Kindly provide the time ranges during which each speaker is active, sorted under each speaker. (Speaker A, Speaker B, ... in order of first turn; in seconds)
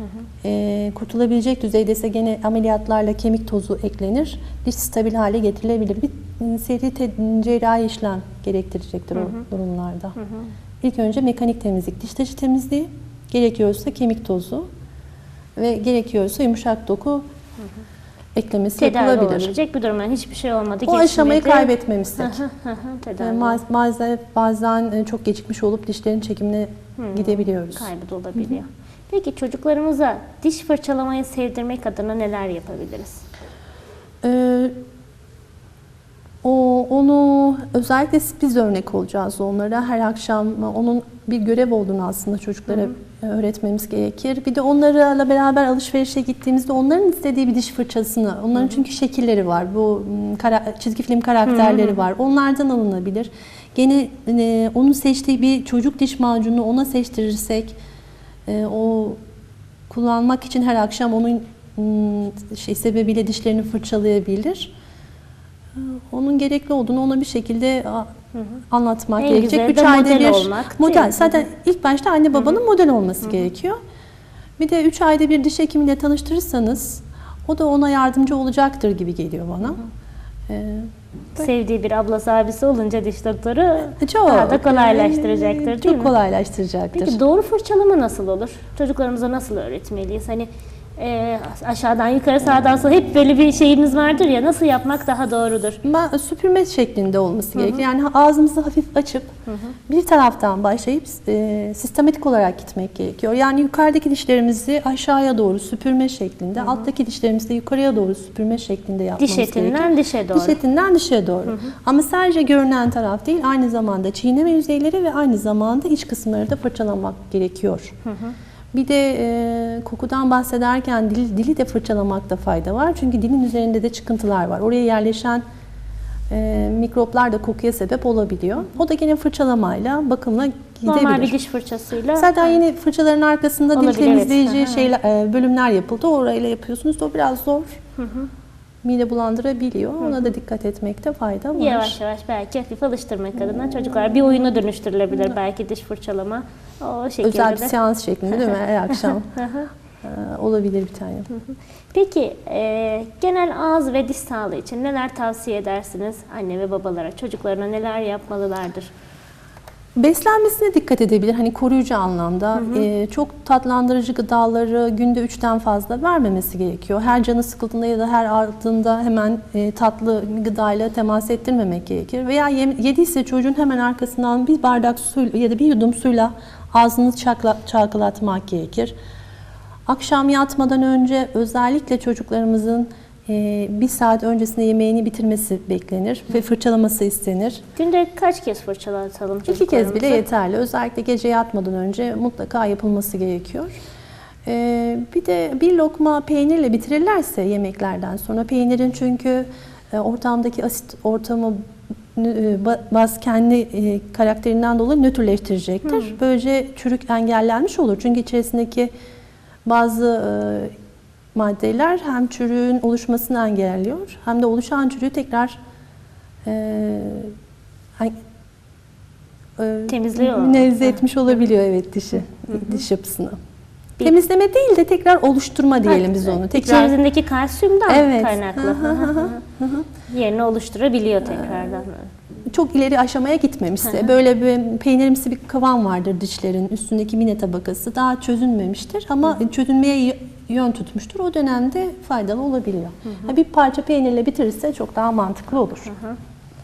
Speaker A: 0.4-10.2, 10.8-14.7, 15.6-17.2, 18.3-19.6, 20.9-22.4, 23.2-27.9, 34.2-34.7, 36.4-57.8, 58.5-59.2, 59.9-64.7, 65.7-68.1, 68.7-73.8, 74.6-79.8, 80.5-80.9, 84.0-87.2, 95.8-99.3, 99.9-117.9, 118.7-125.4, 126.3-131.4, 132.1-137.8, 138.8-142.0, 147.2-149.4, 150.0-151.3, 160.0-178.9, 179.9-187.6, 189.5-193.7, 194.4-201.6, 202.1-208.9, 209.6-210.7, 211.3-215.6, 216.4-217.3, 219.6-223.3, 224.0-227.0, 227.9-229.9, 231.3-231.7, 232.4-245.9
Speaker B: 9.1-9.4, 10.2-10.5, 18.8-23.6, 27.0-33.2, 51.5-52.0, 69.2-71.4, 81.3-86.1, 86.9-95.8, 97.5-97.8, 99.5-99.7, 109.2-110.6, 118.0-118.3, 130.8-132.6, 133.7-134.9, 138.0-138.3, 141.5-147.7, 151.9-158.9, 162.6-162.9, 187.8-190.2, 205.9-206.2, 219.9-221.0, 222.5-222.8, 225.8-229.4, 230.1-232.1, 245.9-246.2